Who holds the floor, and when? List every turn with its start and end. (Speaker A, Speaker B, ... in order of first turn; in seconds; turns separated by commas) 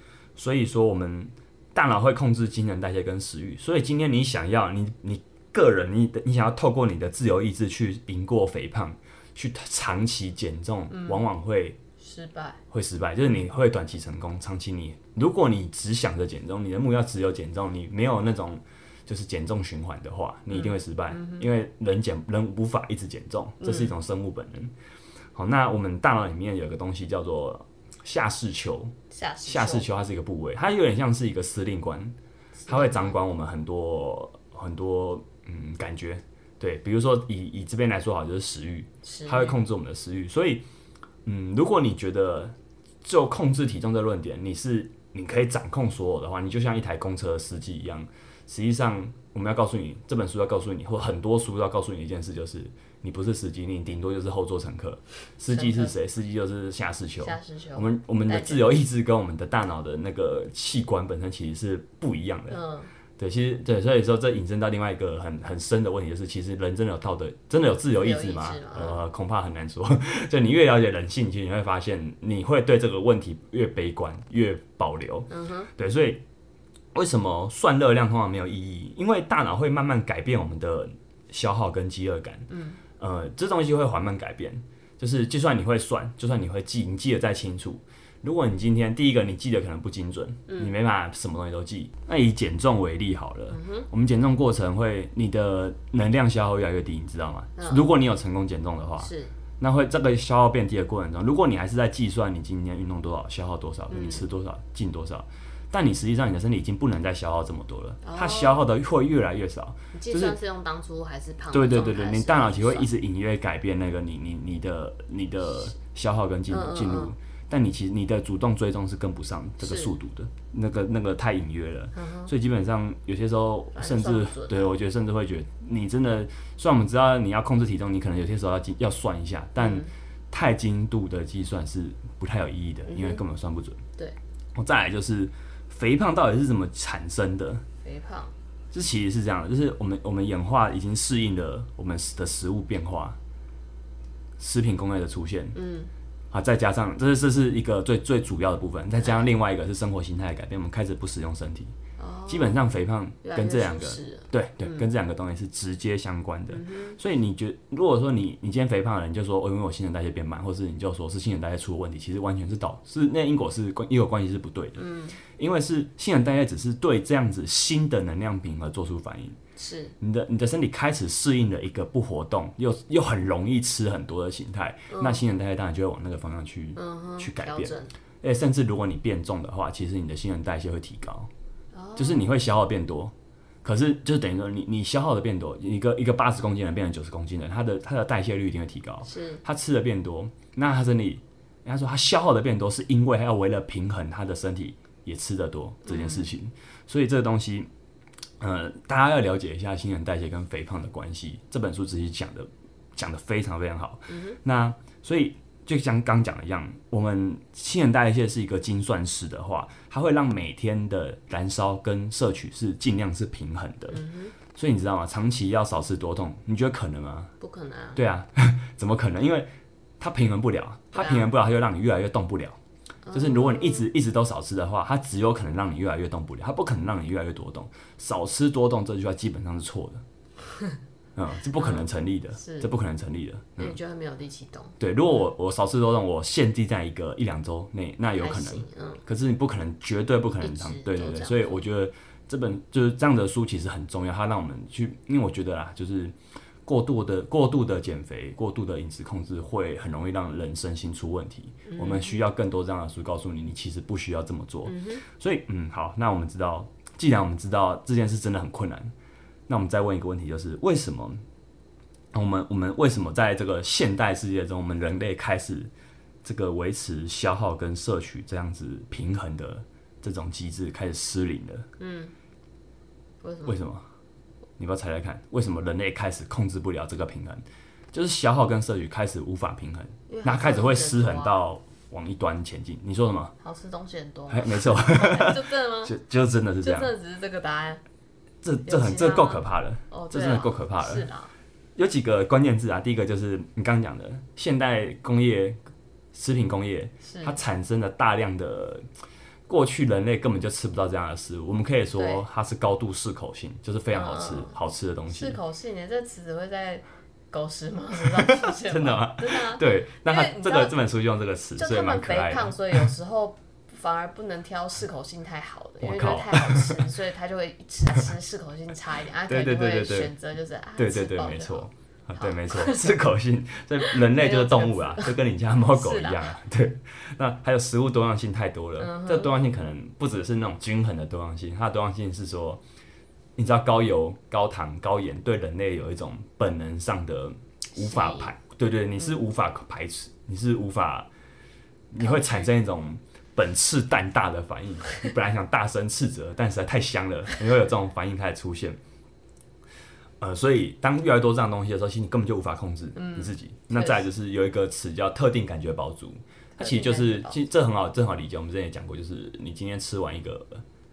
Speaker A: 0.3-11.8, Speaker B: 10.9-11.3, Speaker B: 12.0-12.6, Speaker A: 12.7-24.7, Speaker B: 20.5-21.5, Speaker B: 23.6-23.9, Speaker A: 25.3-32.1, Speaker B: 29.1-29.9, Speaker B: 32.6-33.2, Speaker A: 32.7-40.6, Speaker B: 39.0-39.6, Speaker A: 41.2-62.6, Speaker B: 55.5-55.9, Speaker B: 57.2-58.8, Speaker B: 62.5-62.9, Speaker A: 63.2-76.2, Speaker B: 67.9-69.0, Speaker B: 75.3-75.7, Speaker A: 76.9-110.4, Speaker B: 82.5-82.8, Speaker B: 90.5-90.7, Speaker B: 93.5-93.9, Speaker B: 97.6-97.8, Speaker B: 99.0-99.3, Speaker B: 103.9-104.2, Speaker B: 108.0-108.6, Speaker B: 109.9-112.9, Speaker A: 111.5-133.8, Speaker B: 116.5-117.1, Speaker B: 119.6-119.9, Speaker B: 121.9-122.3, Speaker B: 123.7-124.7, Speaker B: 129.6-129.9, Speaker B: 132.9-133.2, Speaker A: 134.5-137.6, Speaker B: 137.8-138.3, Speaker A: 138.7-143.2, Speaker A: 144.4-145.6, Speaker B: 145.5-145.9, Speaker A: 146.3-151.7, Speaker B: 149.0-149.3, Speaker B: 152.0-152.6, Speaker A: 152.3-169.4, Speaker B: 153.2-154.8, Speaker B: 156.5-157.0, Speaker B: 164.8-165.2, Speaker B: 169.6-169.9, Speaker A: 170.0-181.3, Speaker B: 174.9-175.2, Speaker B: 176.8-177.9, Speaker B: 181.7-182.3, Speaker A: 182.0-197.7, Speaker B: 189.1-189.4, Speaker B: 195.8-196.3, Speaker A: 198.4-214.0, Speaker B: 204.1-204.4, Speaker B: 213.9-214.3, Speaker A: 214.5-217.3, Speaker B: 217.4-218.0, Speaker A: 217.9-219.5, Speaker A: 220.0-222.6, Speaker B: 220.9-221.3, Speaker B: 223.0-223.9, Speaker A: 223.1-230.0, Speaker A: 231.2-233.8, Speaker B: 231.5-232.7, Speaker B: 233.6-234.8, Speaker A: 234.8-258.9, Speaker B: 238.2-239.0, Speaker B: 240.4-241.6, Speaker B: 251.7-252.2, Speaker B: 254.7-255.0, Speaker A: 259.5-261.2, Speaker A: 262.1-265.7, Speaker A: 266.2-271.7, Speaker B: 271.8-272.1, Speaker B: 273.2-273.6, Speaker A: 273.4-273.9, Speaker A: 274.6-283.3, Speaker B: 280.1-281.4, Speaker B: 283.4-285.9, Speaker A: 284.3-286.9, Speaker B: 286.6-287.8, Speaker A: 288.4-291.1, Speaker B: 288.6-291.3, Speaker A: 291.8-295.6, Speaker A: 296.1-298.9, Speaker B: 297.0-297.4, Speaker A: 299.5-305.4, Speaker B: 301.9-302.2, Speaker B: 303.9-304.6, Speaker B: 305.1-310.7, Speaker A: 308.0-312.9, Speaker B: 311.6-322.9, Speaker A: 315.8-316.8, Speaker A: 319.3-320.1, Speaker A: 320.8-332.6, Speaker B: 323.8-325.1, Speaker B: 325.7-326.3, Speaker B: 328.8-329.4, Speaker A: 333.4-341.1, Speaker B: 337.7-338.3, Speaker A: 341.9-348.8, Speaker B: 342.0-342.5, Speaker A: 350.2-360.6, Speaker B: 352.9-354.0, Speaker B: 356.6-357.4